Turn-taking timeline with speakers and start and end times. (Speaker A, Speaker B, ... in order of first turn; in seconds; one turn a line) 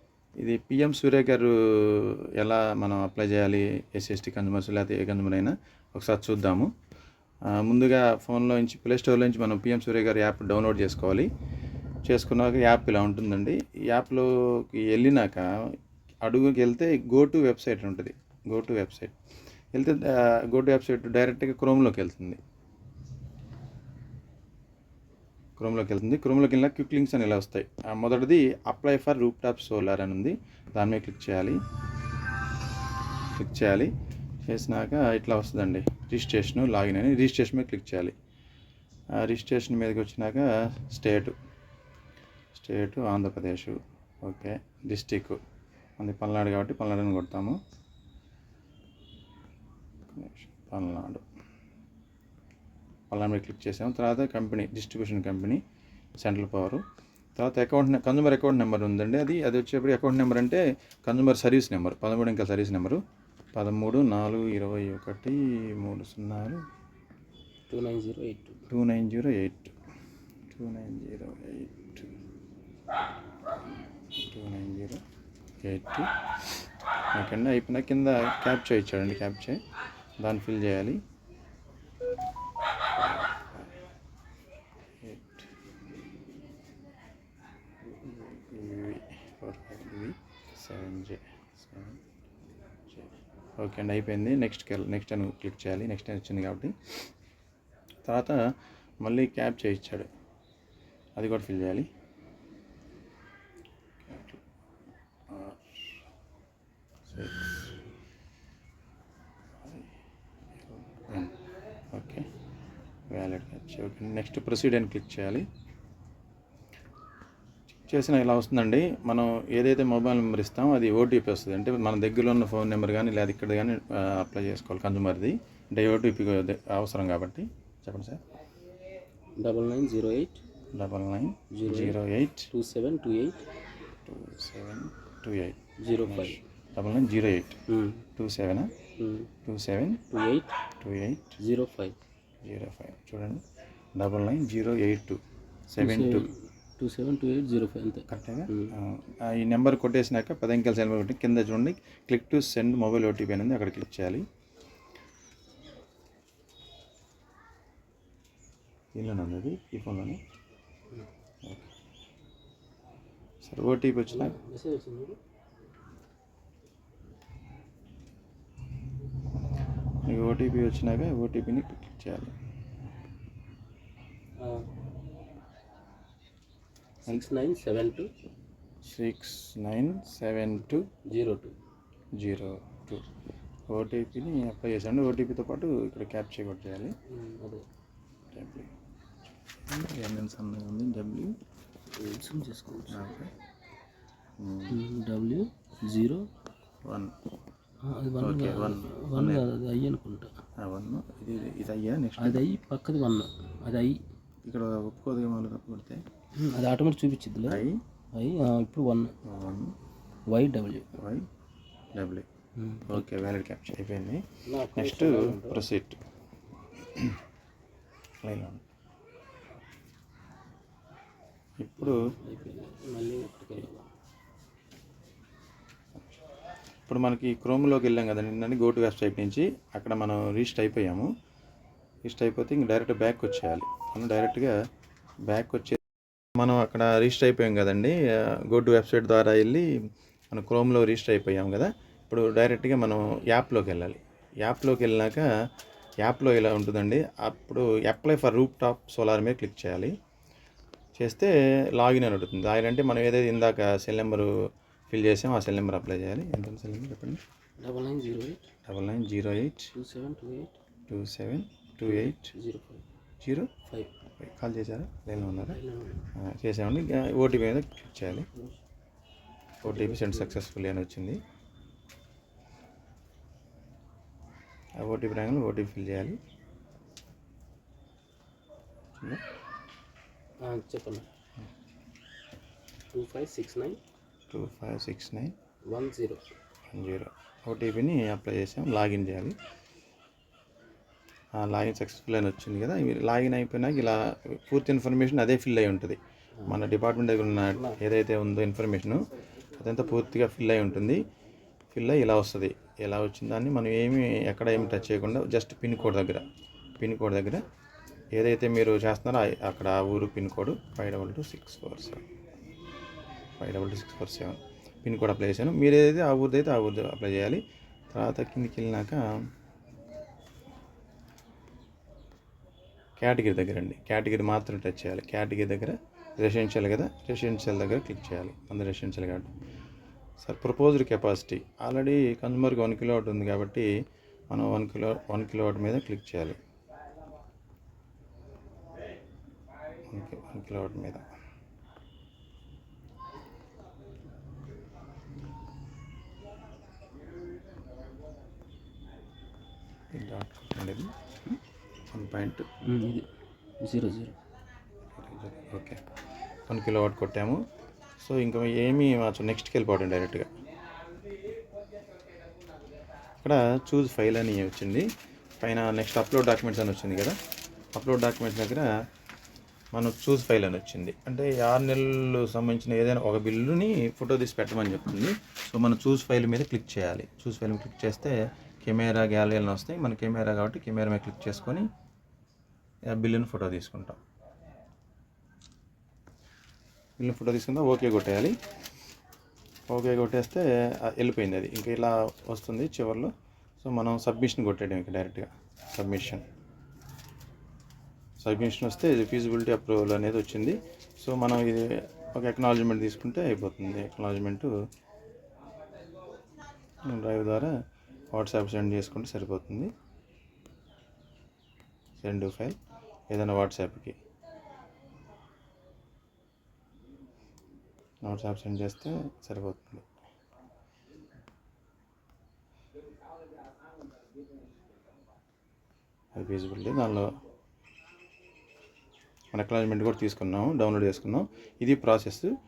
Speaker A: 0.4-6.7
Speaker A: 7.5-11.3
Speaker A: 12.1-15.5
Speaker A: 16.2-19.1
Speaker A: 19.7-22.4
Speaker A: 25.6-31.6
Speaker A: 33.4-33.9
Speaker A: 34.5-38.1
Speaker A: 39.2-41.4
Speaker A: 42.5-45.4
Speaker A: 46.0-47.6
Speaker A: 50.1-51.2
Speaker A: 53.1-55.6
Speaker A: 56.2-56.8
Speaker A: 57.4-63.0
Speaker A: 63.5-66.6
Speaker B: 67.7-68.6
Speaker A: 68.7-69.7
Speaker A: 70.5-72.1
Speaker A: 74.2-75.0
Speaker A: 75.6-79.6
Speaker A: 80.2-81.0
Speaker A: 82.9-83.7
Speaker A: 85.0-85.5
Speaker A: 87.8-92.0
Speaker A: 92.9-97.0
Speaker A: 98.1-98.4
Speaker A: 99.0-100.1
Speaker A: 101.2-101.9
Speaker A: 104.0-104.4
Speaker A: 105.3-106.0
Speaker A: 107.1-107.7
Speaker A: 110.7-111.4
Speaker A: 111.9-112.3
Speaker A: 113.1-115.5
Speaker A: 117.7-128.2
Speaker B: 129.4-130.4
Speaker A: 130.7-132.5
Speaker B: 131.5-132.0
Speaker B: 132.5-133.5
Speaker A: 134.1-137.6
Speaker B: 135.8-136.4
Speaker B: 137.7-138.1
Speaker A: 138.2-138.7
Speaker B: 139.0-139.3
Speaker A: 139.4-140.1
Speaker B: 140.1-140.6
Speaker A: 140.7-141.4
Speaker B: 141.4-142.0
Speaker A: 142.4-143.4
Speaker A: 144.0-146.3
Speaker B: 145.8-148.8
Speaker A: 148.1-154.3
Speaker A: 159.0-160.2
Speaker A: 161.4-161.7
Speaker A: 163.4-164.3
Speaker B: 164.1-165.2
Speaker A: 170.0-172.3
Speaker B: 174.4-174.7
Speaker B: 177.0-178.1
Speaker A: 178.8-180.9
Speaker B: 181.1-181.6
Speaker A: 182.2-183.0
Speaker A: 183.7-187.0
Speaker B: 187.1-187.7
Speaker A: 188.3-188.7
Speaker A: 189.7-191.4
Speaker B: 191.9-193.1
Speaker A: 192.9-193.3
Speaker A: 194.4-194.8
Speaker B: 194.7-196.3
Speaker A: 196.8-197.1
Speaker B: 197.8-200.4
Speaker A: 198.2-199.5
Speaker A: 200.6-202.4
Speaker B: 202.2-204.0
Speaker A: 204.4-206.0
Speaker B: 206.4-209.2
Speaker A: 207.5-207.8
Speaker A: 209.2-209.8
Speaker B: 210.3-211.0
Speaker A: 211.0-211.3
Speaker A: 212.0-212.3
Speaker B: 212.6-213.1
Speaker A: 212.9-216.0
Speaker B: 214.5-215.6
Speaker A: 218.2-218.7
Speaker A: 221.6-222.1
Speaker B: 221.8-223.9
Speaker A: 226.9-231.1
Speaker A: 232.1-234.5
Speaker A: 235.3-235.8
Speaker A: 236.4-239.7
Speaker A: 240.3-245.3
Speaker A: 246.0-250.0
Speaker A: 251.0-254.3
Speaker A: 254.9-257.2
Speaker B: 257.6-258.5
Speaker A: 258.6-259.7
Speaker B: 259.7-260.6
Speaker A: 260.9-262.3
Speaker B: 261.8-262.9
Speaker A: 263.2-263.5
Speaker B: 263.7-263.9
Speaker A: 264.2-265.6
Speaker B: 265.2-266.1
Speaker A: 266.1-268.3
Speaker B: 268.2-268.6
Speaker A: 269.6-271.2
Speaker B: 269.6-270.4
Speaker A: 274.8-276.2
Speaker B: 280.4-281.1
Speaker B: 282.9-283.8
Speaker A: 284.3-285.4
Speaker B: 285.7-286.3
Speaker A: 286.7-289.4
Speaker A: 291.4-301.0
Speaker A: 301.7-306.3
Speaker B: 304.7-305.0
Speaker A: 306.8-307.4
Speaker A: 308.2-312.0
Speaker A: 313.4-319.0
Speaker A: 323.0-329.3
Speaker A: 330.2-333.7
Speaker A: 334.3-336.4
Speaker A: 339.9-341.0
Speaker A: 349.9-351.4
Speaker A: 351.9-352.6
Speaker B: 352.6-353.1
Speaker B: 353.6-354.1
Speaker A: 355.0-355.8
Speaker A: 356.5-357.4
Speaker A: 358.0-360.3
Speaker A: 363.2-364.9
Speaker A: 365.4-367.2
Speaker A: 367.8-368.7
Speaker A: 369.7-381.7
Speaker A: 382.9-384.0
Speaker A: 387.0-388.4
Speaker A: 389.7-396.3
Speaker A: 398.2-404.5
Speaker A: 406.9-407.5
Speaker A: 408.1-409.7
Speaker A: 412.0-412.6
Speaker A: 413.1-414.0
Speaker A: 418.1-419.9
Speaker A: 426.1-427.1
Speaker A: 429.3-432.3